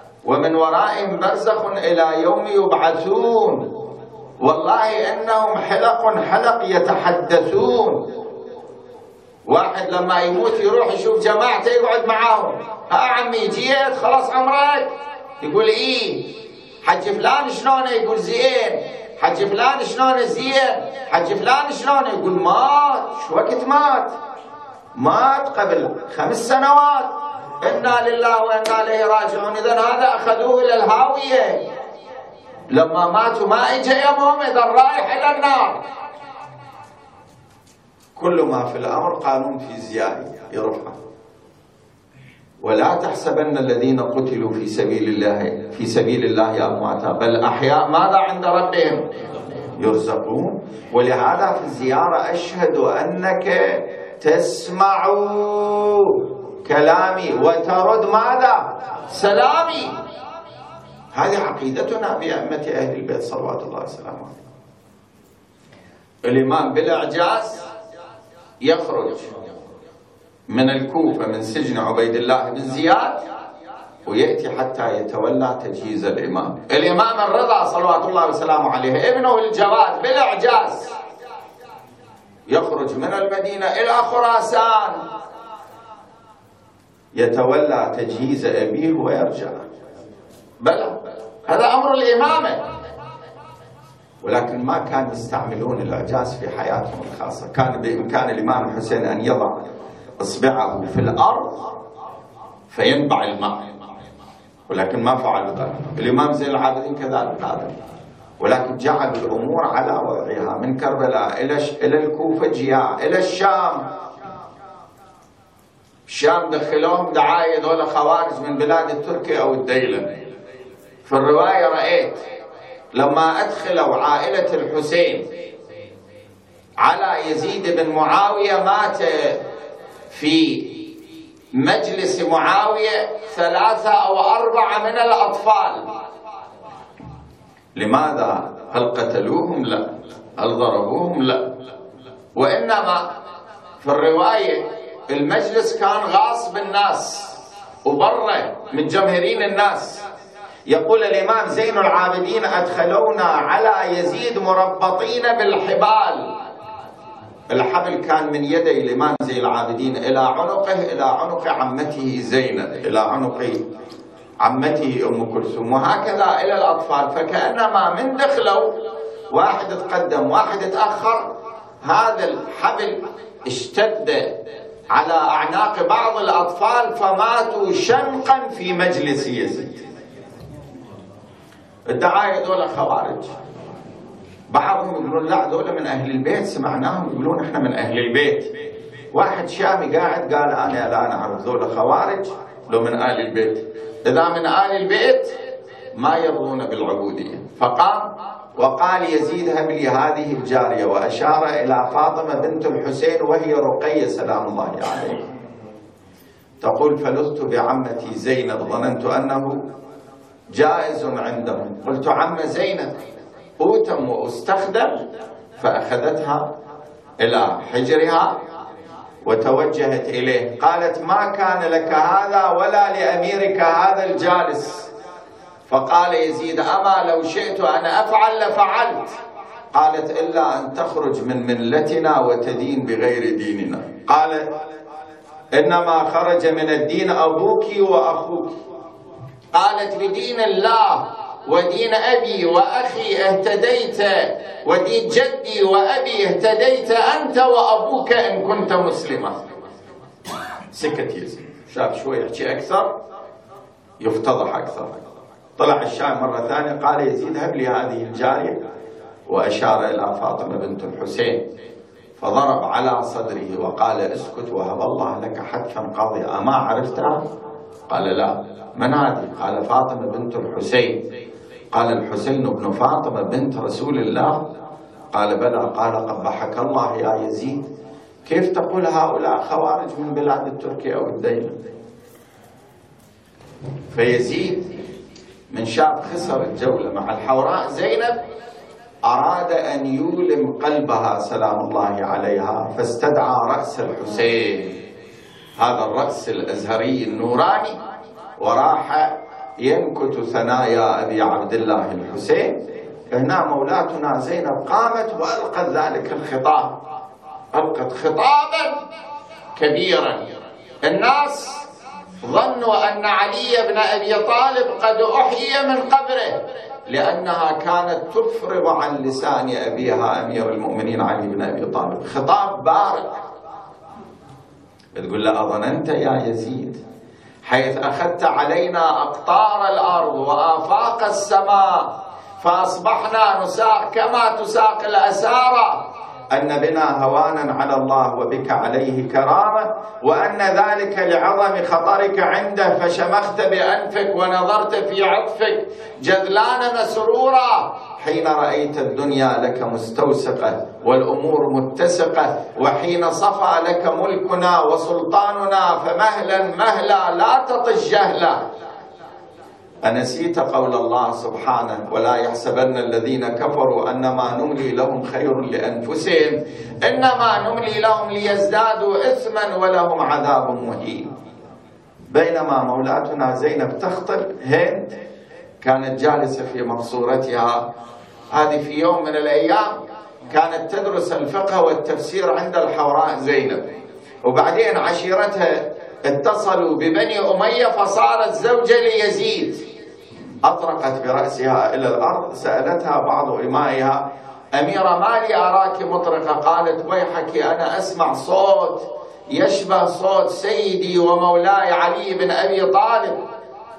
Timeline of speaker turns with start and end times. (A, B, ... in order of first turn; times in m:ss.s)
0:00.2-0:03.7 A
0:04.4-0:08.2 A
0:09.5-0:24.1 A
0:25.0-0:31.6 A
0:32.7-0:35.8 A
0:38.2-0:41.0 A
0:42.6-0:49.1 A
0:49.8-1:00.0 A
1:01.1-1:04.4 A
1:06.2-1:07.7 A
1:08.6-1:09.3 A
1:10.5-1:13.2 A
1:14.0-1:21.0 A
1:22.5-1:25.0 A
1:27.1-1:29.7 A
1:30.6-1:32.6 A
1:34.2-1:39.7 A
1:40.2-1:41.8 A
1:42.7-1:43.6 A
1:44.7-1:47.7 A
1:48.4-1:53.9 A
1:56.1-2:00.1 A
2:01.0-2:02.2 A
2:02.9-2:05.3 A
2:06.8-2:09.4 A
2:10.1-2:10.9 A
2:11.5-2:15.9 A
2:17.8-2:21.6 A
2:22.4-2:23.1 A
2:23.8-2:30.0 A
2:30.7-2:36.3 A
2:37.5-2:43.6 A
2:44.4-2:48.7 A
2:49.3-2:51.3 A
2:51.8-2:54.4 A
2:54.9-2:59.8 A
3:01.9-3:03.3 A
3:04.5-3:08.5 A
3:09.1-3:15.4 A
3:15.9-3:25.2 A
3:26.6-3:29.7 A
3:30.5-3:33.0 A
3:33.6-3:35.1 A
3:35.6-3:36.5 A
3:37.2-3:38.4 A
3:39.2-3:44.9 A
3:45.7-3:49.2 A
3:49.7-3:54.6 A
3:55.5-3:58.6 A
3:59.5-4:09.4 A
4:10.7-4:12.9 A
4:14.0-4:15.0 A
4:15.6-4:18.6 A
4:19.3-4:21.4 A
4:22.2-4:27.2 A
4:27.9-4:31.0 A
4:31.7-4:34.5 A
4:35.1-4:37.7 A
4:38.3-4:41.6 A
4:43.9-4:44.7 A
4:45.5-4:48.2 A
4:49.0-4:54.8 A
4:55.6-4:57.8 A
4:58.4-5:06.8 A
5:07.5-5:08.8 A
5:09.6-5:10.3 A
5:10.8-5:11.7 A
5:12.2-5:23.2 A
5:24.9-5:26.8 A
5:27.4-5:58.4 A
5:59.8-6:11.1 A
6:12.1-6:14.9 A
6:15.6-6:17.7 A
6:18.3-6:29.6 A
6:30.4-6:43.2 A